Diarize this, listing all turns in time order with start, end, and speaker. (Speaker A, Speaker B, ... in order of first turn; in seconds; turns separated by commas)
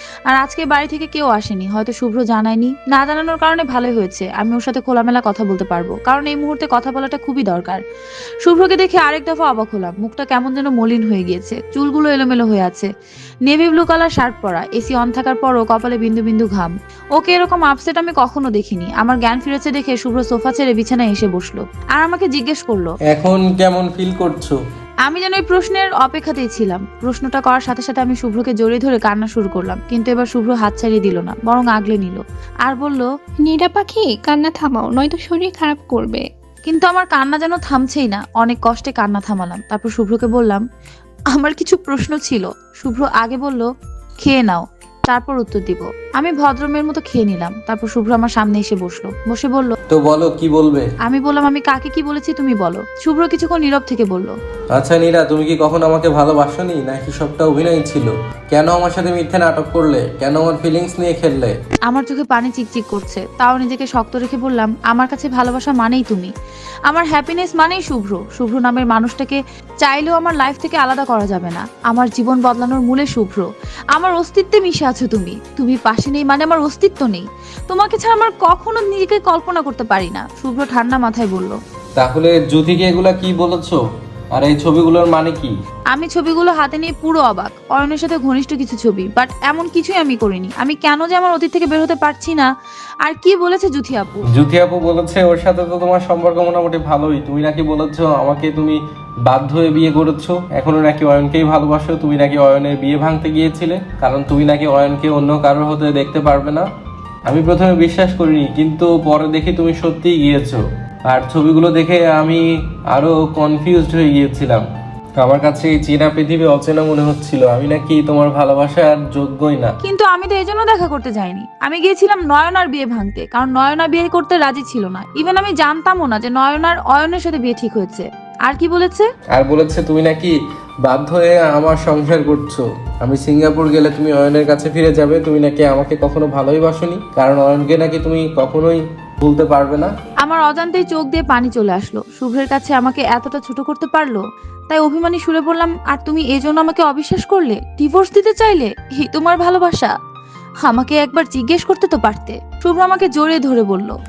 Speaker A: 0.3-7.8, Speaker A: 8.4-12.9, Speaker A: 13.5-23.0, Speaker B: 23.1-24.6, Speaker A: 25.1-33.1, Speaker C: 33.4-36.2, Speaker A: 36.6-40.6, Speaker A: 41.3-43.7, Speaker A: 44.2-49.8, Speaker B: 49.9-50.9, Speaker A: 51.0-54.4, Speaker B: 54.7-61.6, Speaker A: 61.9-66.3, Speaker A: 66.9-81.6, Speaker B: 82.0-85.5, Speaker A: 85.9-92.5, Speaker A: 93.0-94.3, Speaker B: 94.3-106.7, Speaker B: 107.3-114.7, Speaker B: 115.2-119.8, Speaker A: 119.8-129.1, Speaker B: 129.3-139.9, Speaker A: 140.2-149.9, Speaker A: 150.6-154.0